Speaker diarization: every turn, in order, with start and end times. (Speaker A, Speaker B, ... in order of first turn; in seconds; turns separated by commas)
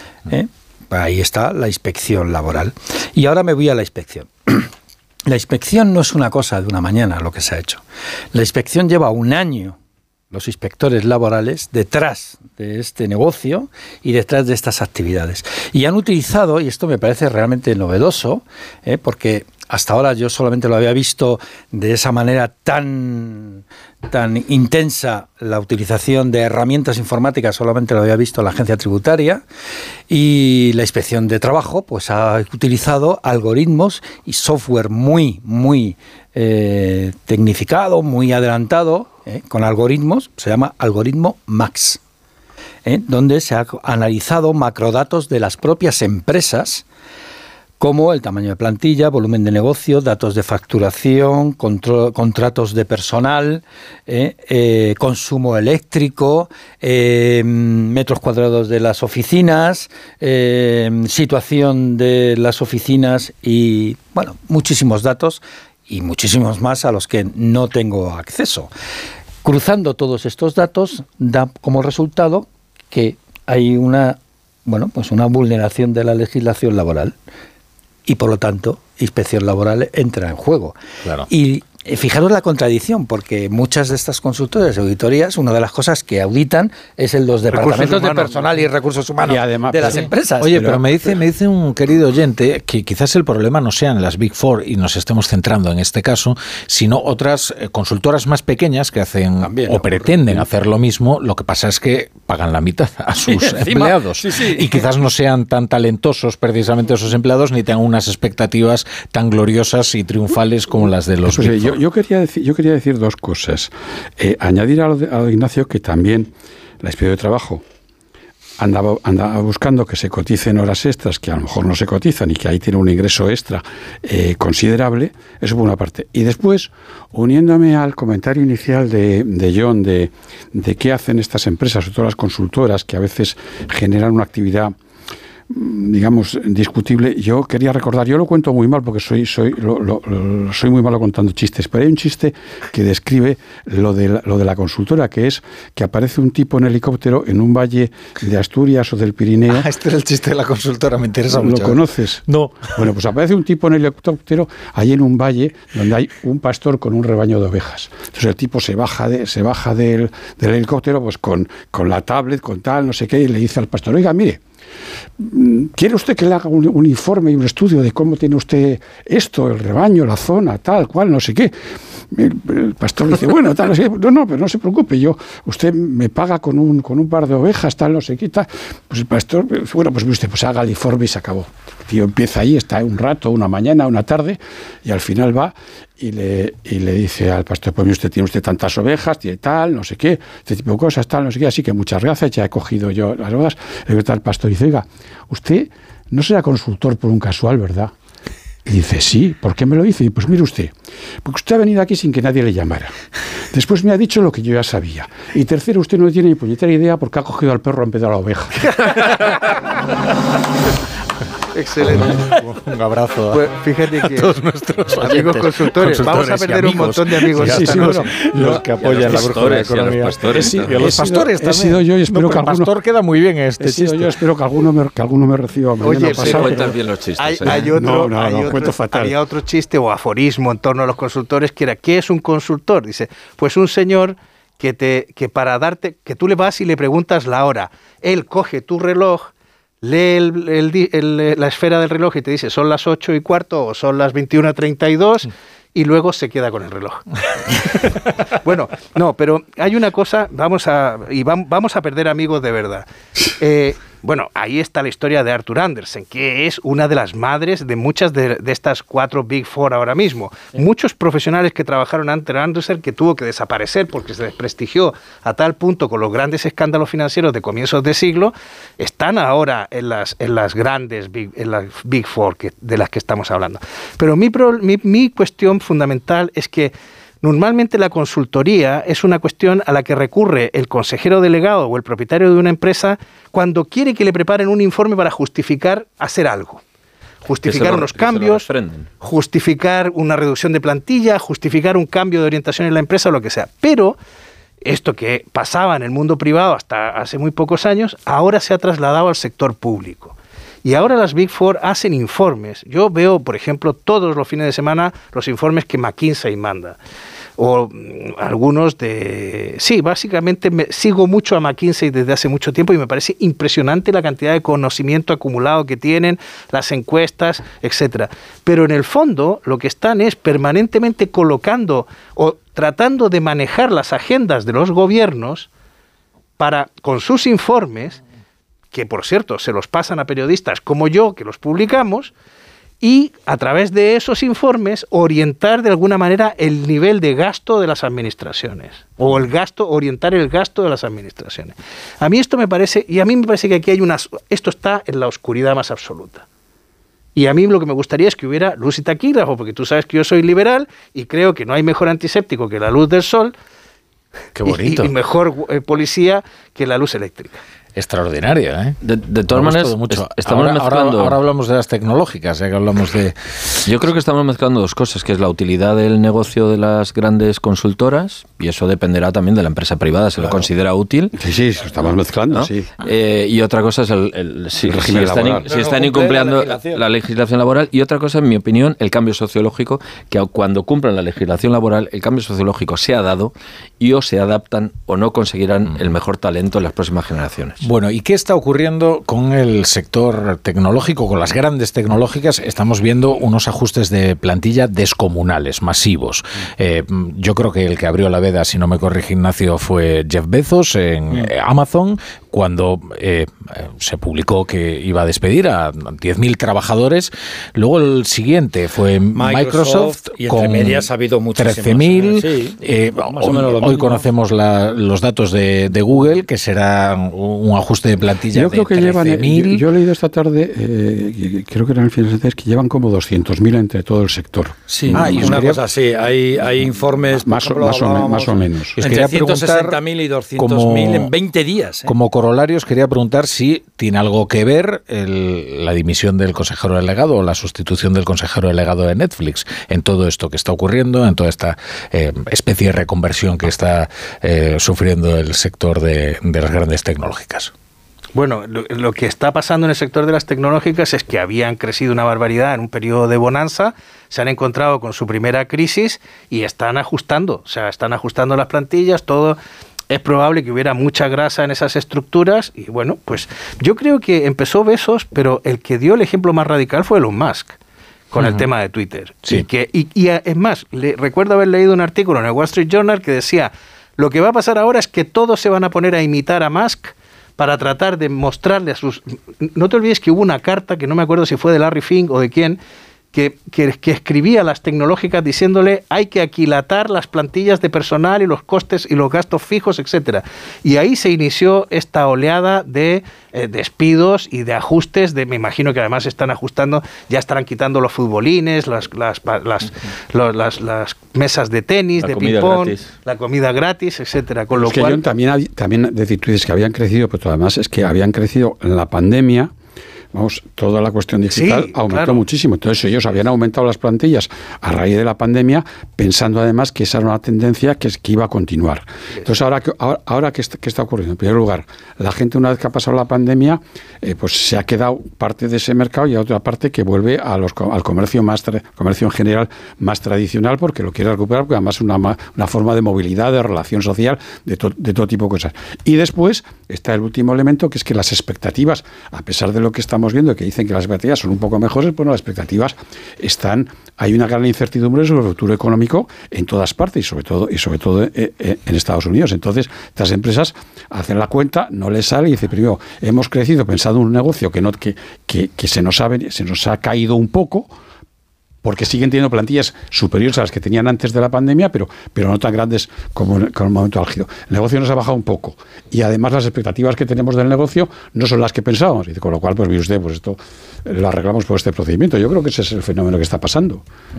Speaker A: 0.3-4.7, Speaker A: 5.3-9.8, Speaker A: 10.3-29.4, Speaker A: 30.1-42.0, Speaker A: 42.9-46.9, Speaker A: 47.8-68.7, Speaker A: 69.4-77.2, Speaker A: 78.1-80.8, Speaker A: 81.3-90.8, Speaker B: 87.5-88.6, Speaker C: 89.2-90.8, Speaker D: 89.9-111.8, Speaker A: 99.4-100.5, Speaker A: 103.3-104.8, Speaker C: 111.3-116.3, Speaker C: 116.8-117.6, Speaker C: 118.6-134.8, Speaker C: 135.5-149.7, Speaker D: 149.5-152.8, Speaker C: 151.3-152.2, Speaker C: 152.8-164.4, Speaker C: 165.2-171.5, Speaker C: 172.1-197.9, Speaker C: 198.7-200.7, Speaker C: 201.2-202.9, Speaker C: 203.5-208.7, Speaker B: 208.7-209.0, Speaker B: 211.5-212.2, Speaker D: 211.8-224.2, Speaker B: 213.3-214.3, Speaker B: 215.0-218.1, Speaker C: 217.4-218.0, Speaker E: 218.3-220.7, Speaker C: 220.3-222.7, Speaker C: 223.6-226.8, Speaker B: 225.8-239.3, Speaker E: 226.0-227.8, Speaker C: 227.5-229.2, Speaker B: 239.8-247.0, Speaker B: 248.4-252.9, Speaker B: 253.4-286.6, Speaker B: 287.2-288.5, Speaker E: 287.4-288.9, Speaker B: 289.0-294.0, Speaker B: 294.6-306.8, Speaker B: 307.4-325.5, Speaker B: 326.4-328.0, Speaker B: 328.7-332.1, Speaker B: 332.8-346.2, Speaker B: 347.1-353.3, Speaker D: 354.4-354.9, Speaker B: 354.5-357.4, Speaker D: 357.8-358.8, Speaker E: 358.8-361.2, Speaker D: 359.3-363.6, Speaker E: 363.6-371.1, Speaker C: 371.2-372.7, Speaker E: 372.3-387.6, Speaker C: 374.6-375.5, Speaker A: 375.4-376.8, Speaker D: 387.6-419.6, Speaker A: 409.1-414.1, Speaker C: 418.3-425.3, Speaker A: 424.7-431.9, Speaker D: 424.9-425.6, Speaker C: 427.2-428.8, Speaker D: 428.8-429.8, Speaker D: 430.4-431.1, Speaker D: 431.9-447.5, Speaker B: 448.1-459.4, Speaker B: 459.9-467.6, Speaker B: 468.1-482.6, Speaker D: 468.2-468.5, Speaker B: 483.1-505.0, Speaker E: 502.0-502.9, Speaker C: 504.5-509.5, Speaker C: 510.1-557.7, Speaker B: 511.3-512.2, Speaker C: 558.6-573.8